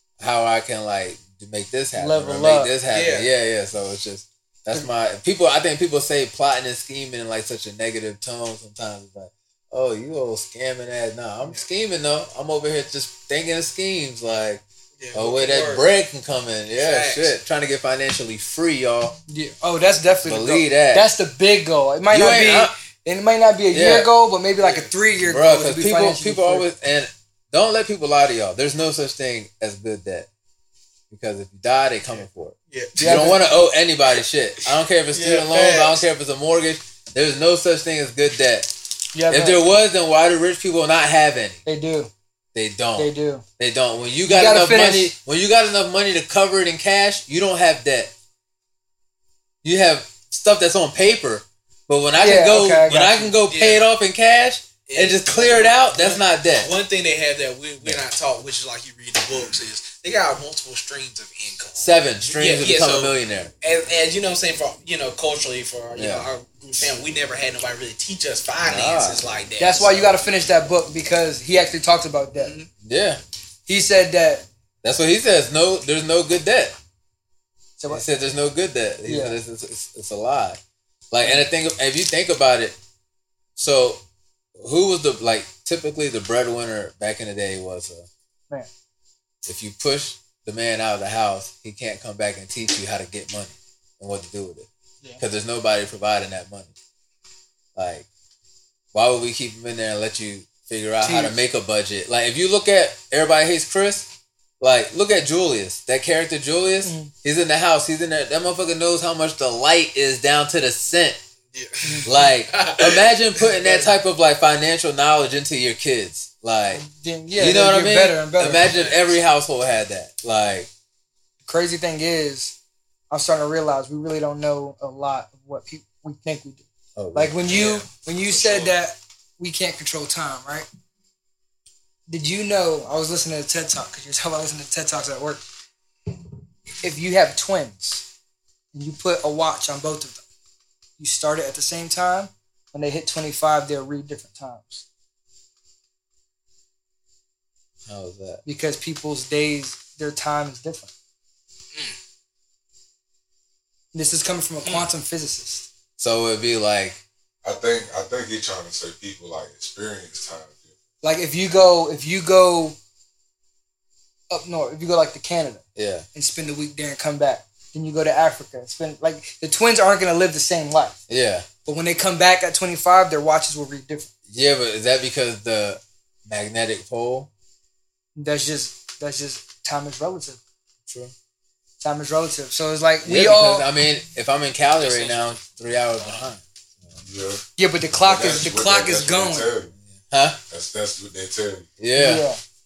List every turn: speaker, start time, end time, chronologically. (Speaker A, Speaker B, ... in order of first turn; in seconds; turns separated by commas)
Speaker A: 0.2-14.6, Speaker B: 2.0-2.7, Speaker C: 2.9-3.3, Speaker C: 15.0-15.9, Speaker A: 15.1-19.2, Speaker C: 16.8-17.3, Speaker B: 19.3-26.7, Speaker A: 20.2-21.1, Speaker A: 22.1-22.7, Speaker A: 23.7-24.1, Speaker C: 24.6-24.9, Speaker A: 25.2-30.3, Speaker A: 31.1-38.7, Speaker C: 32.1-33.2, Speaker B: 33.0-33.4, Speaker C: 34.7-36.0, Speaker B: 39.1-39.6, Speaker A: 39.3-41.6, Speaker B: 41.6-42.1, Speaker A: 42.5-48.1, Speaker B: 43.0-43.4, Speaker B: 44.2-45.1, Speaker A: 49.6-56.7, Speaker B: 52.2-53.0, Speaker C: 52.9-53.9, Speaker C: 54.9-70.1, Speaker A: 61.8-63.5, Speaker A: 65.9-66.3, Speaker A: 68.6-69.2, Speaker B: 69.6-72.5, Speaker C: 72.4-72.7, Speaker A: 72.8-73.2, Speaker B: 73.7-74.5, Speaker A: 74.8-76.7, Speaker B: 77.8-78.0, Speaker A: 77.9-80.6, Speaker B: 79.0-79.4, Speaker A: 81.1-82.8, Speaker A: 83.5-84.0, Speaker A: 84.5-88.1, Speaker A: 89.5-94.7, Speaker A: 95.2-96.7, Speaker A: 97.7-98.1, Speaker A: 98.9-104.1, Speaker B: 101.0-101.4, Speaker A: 104.6-111.2, Speaker B: 106.8-107.1, Speaker C: 111.5-113.9, Speaker B: 111.8-112.1, Speaker A: 112.0-116.8, Speaker B: 116.7-118.7, Speaker A: 117.4-120.7, Speaker C: 118.6-119.1, Speaker B: 121.5-122.5, Speaker B: 123.1-130.7, Speaker A: 127.0-127.4, Speaker C: 127.4-128.7, Speaker B: 132.1-135.4, Speaker B: 136.8-138.0, Speaker B: 138.7-140.2, Speaker B: 141.0-144.8, Speaker A: 147.9-148.4, Speaker B: 148.4-150.9, Speaker B: 153.9-155.7, Speaker A: 156.0-157.0, Speaker D: 157.4-160.8, Speaker B: 161.0-162.8, Speaker B: 164.3-165.6, Speaker A: 165.8-166.1, Speaker B: 166.1-171.0, Speaker A: 171.1-171.5, Speaker B: 171.7-174.1, Speaker A: 174.3-177.3, Speaker B: 178.2-180.4, Speaker A: 180.9-181.1, Speaker B: 181.8-183.7, Speaker A: 183.0-187.0, Speaker C: 184.6-185.4, Speaker D: 187.0-187.4, Speaker B: 187.6-189.5, Speaker D: 188.0-189.7, Speaker A: 189.9-190.4, Speaker D: 190.5-191.7, Speaker A: 191.8-192.2, Speaker B: 191.9-192.4